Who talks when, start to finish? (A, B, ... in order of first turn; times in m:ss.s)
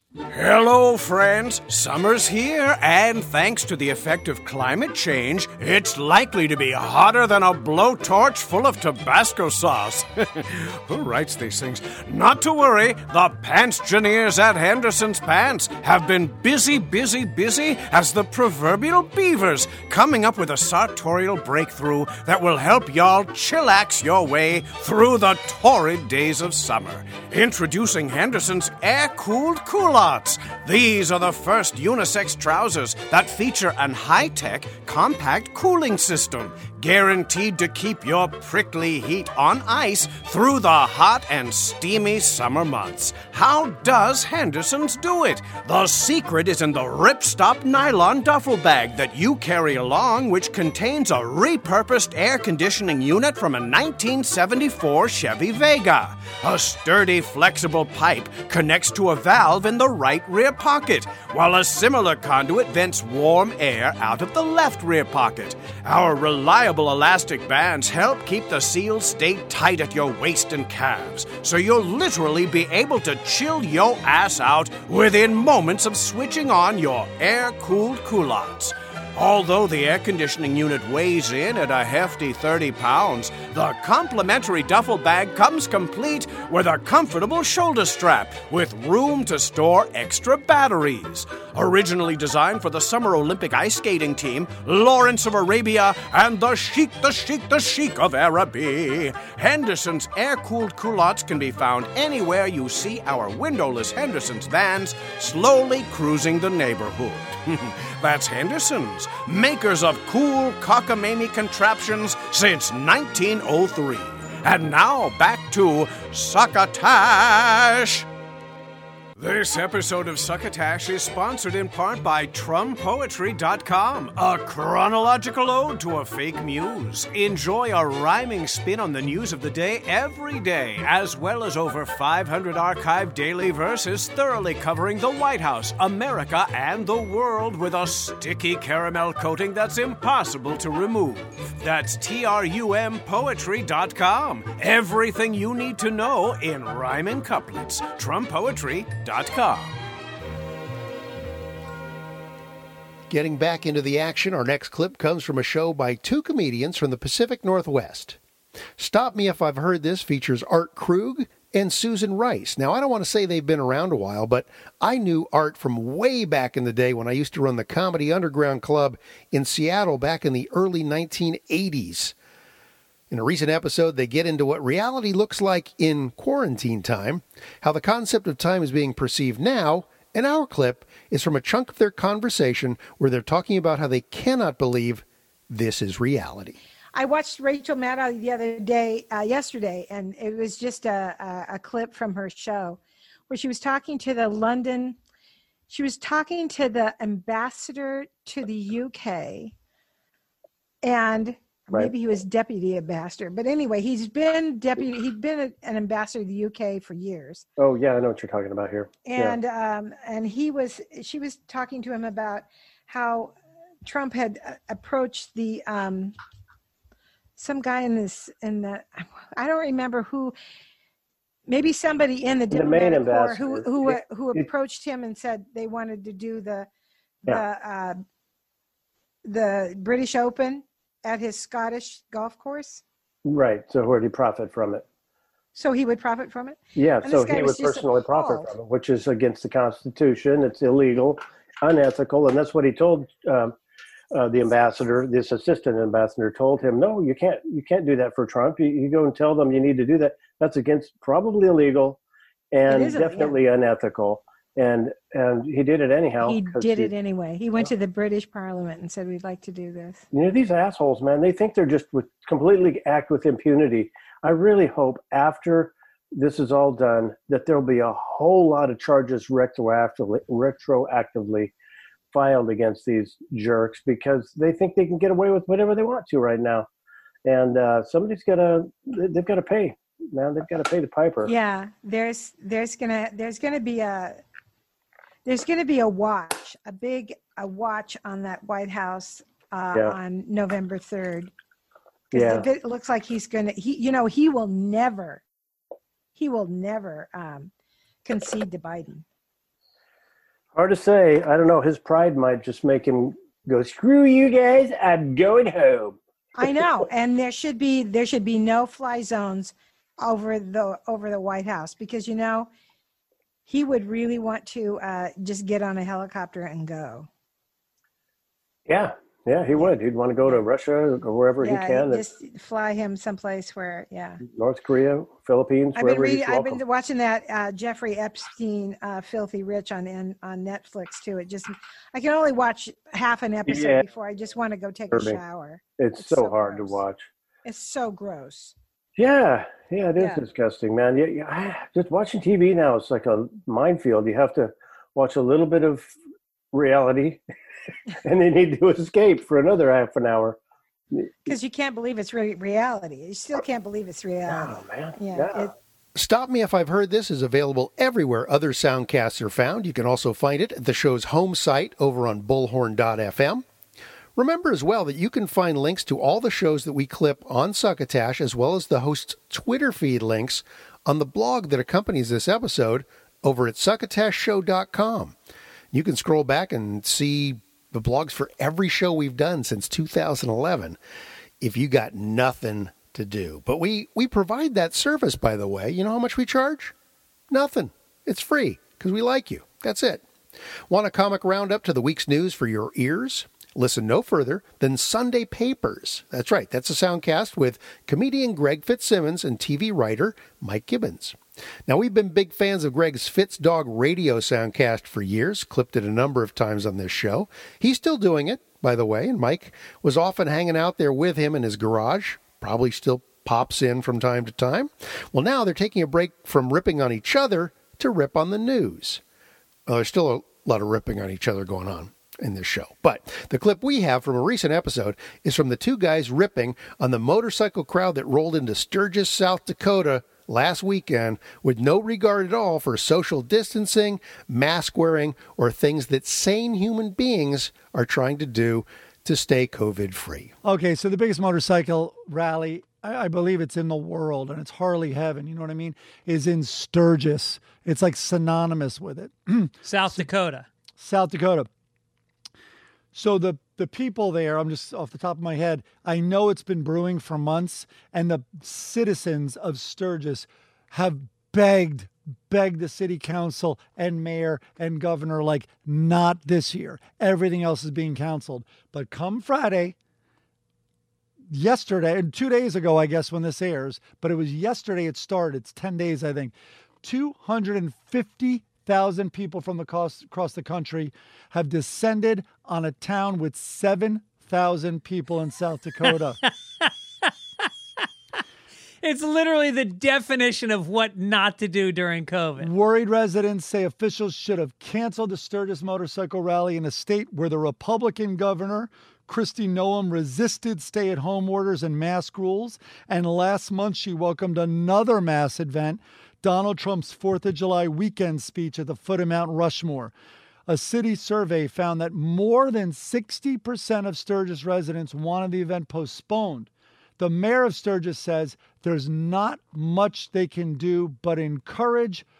0:00.3-1:58.0 A
1:59.2-2:29.7 A
2:33.1-2:38.2 B
2:38.8-2:52.1 B
2:53.1-3:06.6 B
3:06.9-3:15.0 C
3:15.7-3:19.5 C
3:20.8-3:27.4 C
3:27.6-3:29.4 D
3:29.0-3:36.1 C
3:37.4-3:40.3 C
3:41.5-3:46.7 C
3:42.5-3:44.4 D
3:47.2-3:48.0 C
3:49.2-3:52.8 C
3:53.2-3:54.8 D
3:55.5-3:58.5 C
3:56.8-4:03.6 D
4:04.1-4:12.0 D
4:12.5-4:16.9 D
4:12.6-4:13.4 C
4:16.2-4:20.0 C
4:20.1-4:31.5 D
4:32.1-4:36.7 D
4:37.2-4:41.3 D
4:41.2-4:44.2 C
4:45.2-4:51.3 C
4:52.1-4:52.5 D
4:52.1-4:55.2 C
4:56.2-4:57.5 C
4:58.0-4:59.0 C
5:00.5-5:06.6 D
5:06.4-5:12.5 C
5:13.5-5:17.1 C
5:18.7-5:22.0 D
5:21.4-5:24.2 C
5:24.2-5:26.6 D
5:25.7-5:36.8 C
5:33.4-5:33.8 D
5:34.9-5:35.2 D
5:35.8-5:37.1 D
5:37.4-5:38.5 C
5:39.0-5:45.9 D
5:46.5-5:47.2 D
5:48.0-5:50.4 D
5:50.9-5:51.3 D
5:51.2-5:55.5 C
5:54.2-5:55.5 D
5:55.9-6:03.4 B
6:04.2-6:15.2 B
6:15.7-6:20.8 B
6:21.4-6:26.7 B
6:27.3-6:30.0 B
6:30.7-6:59.0 B
6:59.7-7:20.3 B
7:20.4-7:30.1 E
7:29.6-7:30.5 F
7:30.8-7:31.5 E
7:32.9-7:49.8 E
7:51.3-8:06.2 E
8:05.8-8:06.7 F
8:08.8-8:12.5 F
8:12.4-8:29.9 E
8:30.5-8:42.0 E